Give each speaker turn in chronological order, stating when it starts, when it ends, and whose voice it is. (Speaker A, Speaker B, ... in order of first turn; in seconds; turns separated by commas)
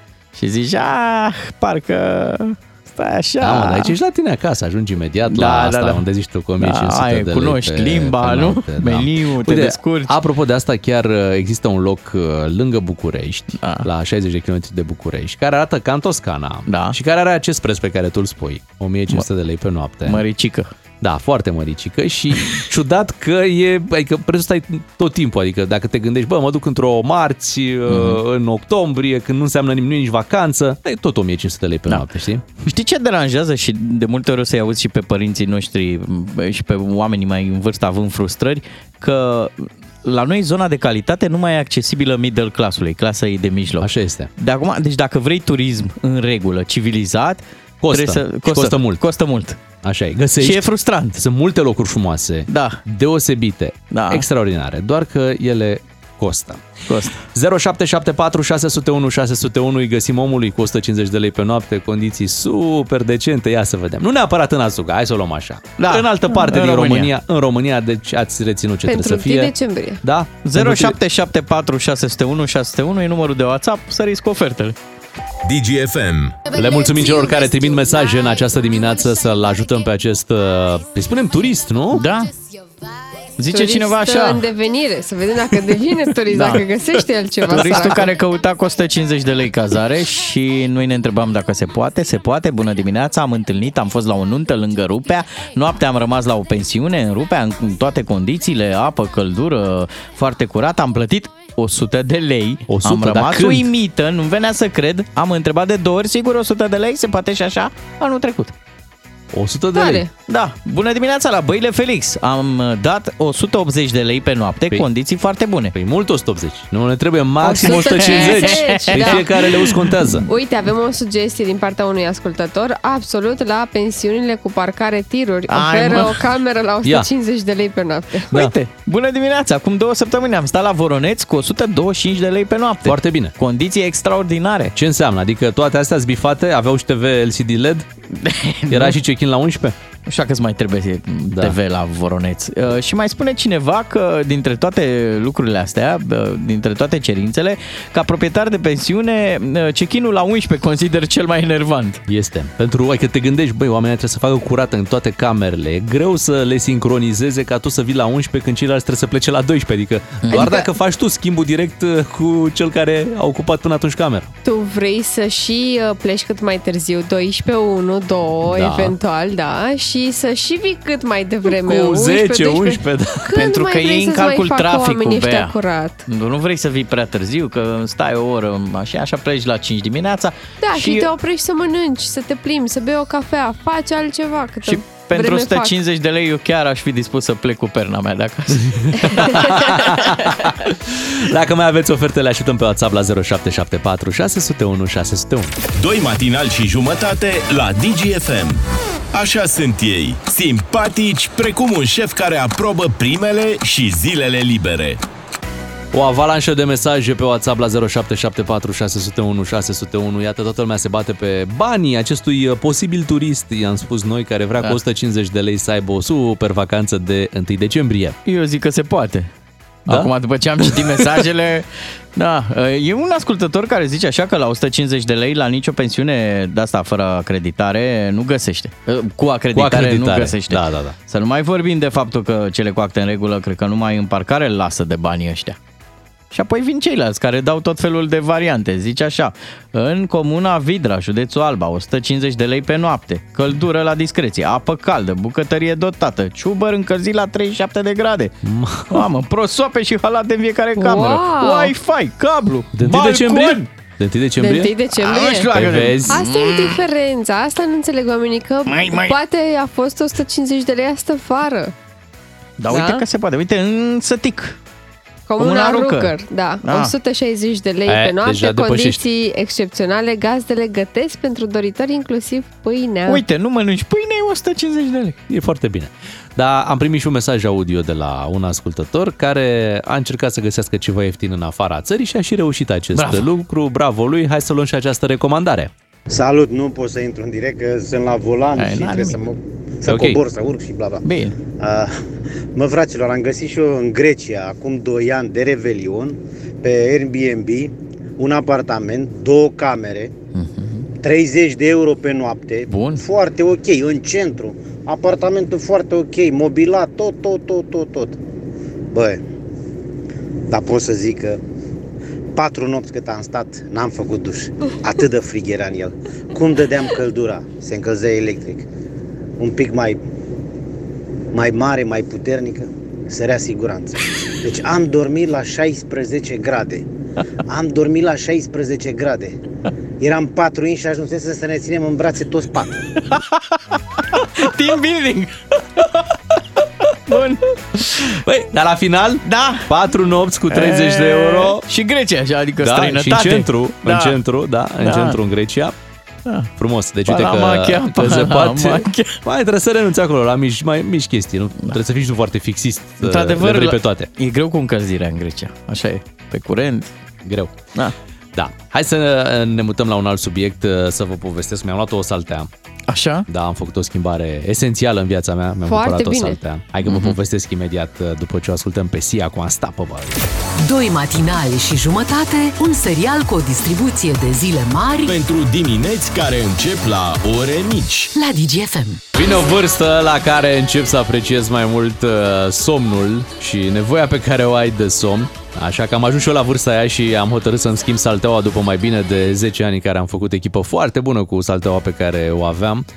Speaker A: 0.3-3.9, Speaker B: 3.4-20.2, Speaker A: 5.3-6.0, Speaker A: 6.6-10.2, Speaker A: 13.6-13.9, Speaker A: 16.7-16.9, Speaker A: 20.1-20.7, Speaker B: 21.0-32.5, Speaker A: 27.9-28.2, Speaker A: 32.6-49.6, Speaker B: 43.8-44.3, Speaker B: 47.8-49.0, Speaker B: 49.8-71.0, Speaker A: 50.4-51.2, Speaker A: 52.5-52.8, Speaker A: 53.9-54.2, Speaker A: 56.9-57.1, Speaker A: 65.8-67.1, Speaker C: 68.9-70.0, Speaker A: 70.4-74.8, Speaker D: 75.4-76.4, Speaker B: 76.5-82.1, Speaker A: 81.9-82.3, Speaker A: 83.4-84.5, Speaker C: 83.5-88.1, Speaker A: 86.3-86.6, Speaker A: 87.5-108.5, Speaker B: 102.7-103.7, Speaker B: 109.3-110.0, Speaker C: 109.7-110.1, Speaker A: 110.3-115.7, Speaker B: 115.7-120.3, Speaker C: 117.4-119.2, Speaker A: 117.5-120.0, Speaker C: 120.3-128.3, Speaker A: 125.5-126.2, Speaker A: 128.3-134.7, Speaker B: 132.8-133.3, Speaker B: 134.7-137.9, Speaker A: 138.1-139.0, Speaker B: 138.7-139.7, Speaker A: 140.1-152.0, Speaker B: 152.1-164.3, Speaker A: 160.2-160.5, Speaker C: 160.3-160.7, Speaker C: 164.4-176.1, Speaker B: 168.4-168.9, Speaker B: 171.5-173.3, Speaker A: 173.3-175.5, Speaker A: 176.1-181.1, Speaker C: 180.6-185.7, Speaker A: 184.6-190.3, Speaker B: 188.8-195.6, Speaker D: 195.8-198.6, Speaker D: 199.1-205.0, Speaker B: 205.9-218.2, Speaker A: 218.2-219.3, Speaker A: 219.8-235.6, Speaker B: 219.9-221.0, Speaker B: 229.5-230.9, Speaker A: 236.3-248.3, Speaker B: 248.4-249.1, Speaker A: 248.9-253.6, Speaker C: 250.8-251.7, Speaker B: 252.7-254.7, Speaker C: 254.4-255.5, Speaker A: 255.0-256.8, Speaker B: 255.5-256.2, Speaker C: 256.1-261.7, Speaker A: 258.7-259.1, Speaker A: 262.6-264.6, Speaker C: 262.7-263.0, Speaker C: 265.3-273.2, Speaker A: 265.4-266.9, Speaker B: 267.9-269.0, Speaker A: 273.1-275.2, Speaker B: 275.3-285.7, Speaker A: 282.9-283.3, Speaker E: 286.1-291.0, Speaker A: 288.6-289.2, Speaker B: 289.8-290.2, Speaker A: 291.0-291.4, Speaker E: 291.6-291.9, Speaker E: 292.5-300.1, Speaker A: 300.3-300.9, Speaker E: 301.0-308.2, Speaker A: 302.7-303.0, Speaker E: 308.9-309.2, Speaker E: 310.5-311.4, Speaker E: 312.3-318.7, Speaker E: 319.4-320.0, Speaker E: 321.3-326.9, Speaker E: 327.5-329.4, Speaker E: 330.0-332.8, Speaker A: 332.9-336.0, Speaker A: 337.1-338.1, Speaker B: 338.1-341.6, Speaker A: 339.2-339.7, Speaker A: 340.5-344.2, Speaker B: 342.6-345.7, Speaker A: 344.8-345.2, Speaker B: 346.6-354.1, Speaker A: 347.1-349.2, Speaker A: 353.0-356.9, Speaker B: 357.2-357.7, Speaker B: 358.3-362.5, Speaker A: 362.9-363.3, Speaker B: 363.3-370.2, Speaker C: 365.6-366.4, Speaker A: 366.9-367.2, Speaker F: 370.6-375.1, Speaker D: 375.0-378.1, Speaker F: 378.1-379.0, Speaker B: 379.1-392.9